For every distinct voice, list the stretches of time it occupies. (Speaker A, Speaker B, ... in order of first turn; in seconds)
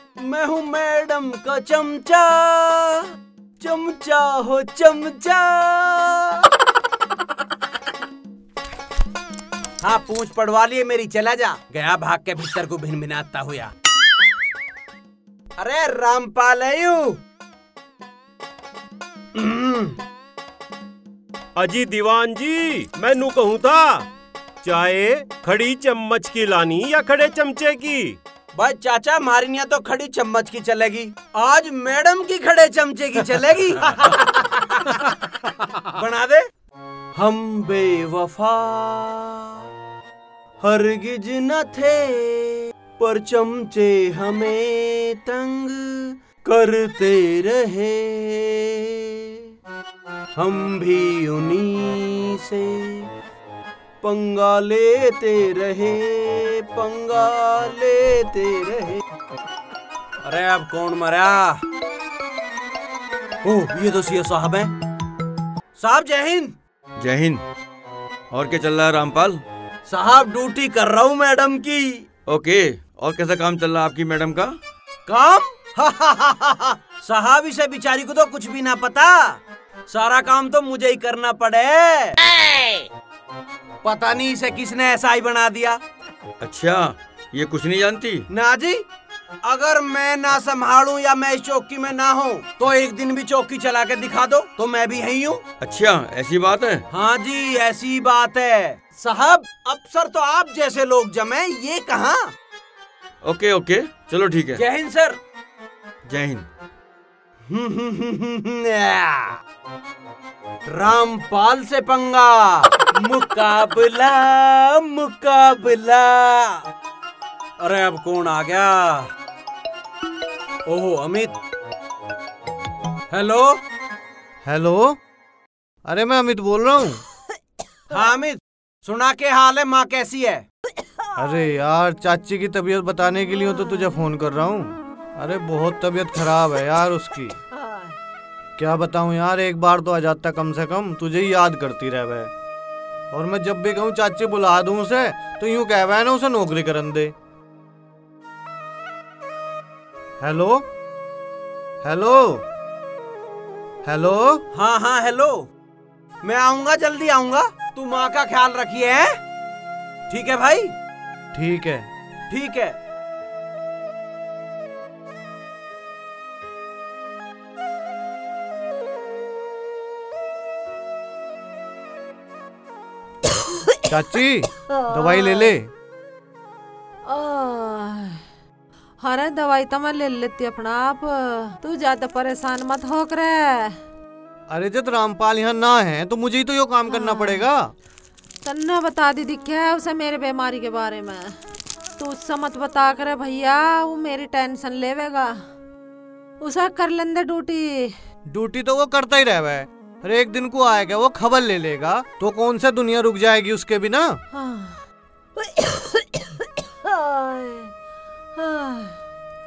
Speaker A: 0.2-3.1, 3.6-6.4, 9.8-13.7, 15.6-17.2, 19.4-20.0, 28.6-35.0, 35.9-36.5, 37.2-39.6, 40.6-49.3, 50.4-53.1, 54.0-59.0, 60.2-61.6, 63.4-64.7, 65.8-66.5, 69.9-72.1, 75.1-82.2, 83.8-85.8, 88.3-88.8, 89.4-95.4, 96.9-102.3, 104.6-105.2, 107.5-109.4, 110.7-116.6, 117.6-119.1, 120.7-121.3, 123.1-123.6, 127.9-130.4, 154.5-155.5, 156.2-159.2, 160.1-160.7, 162.3-162.8
Speaker B: 21.6-24.1, 24.6-28.2
Speaker C: 67.0-67.4, 68.3-69.4, 72.2-74.6, 86.4-88.2, 95.6-96.8, 103.2-104.6, 106.1-106.5
Speaker D: 124.4-125.0, 125.8-127.0, 131.2-137.4, 138.6-142.3, 143.1-147.1, 150.2-150.7, 151.8-152.4, 153.8-154.4, 161.3-161.9, 173.9-175.7, 184.5-187.7, 198.3-204.2
Speaker E: 174.9-175.5, 177.1-178.2, 179.0-183.8, 186.9-187.4, 188.4-191.3, 192.0-195.4, 196.4-197.9, 204.3-204.8, 205.4-206.0, 206.9-207.7, 208.4-208.9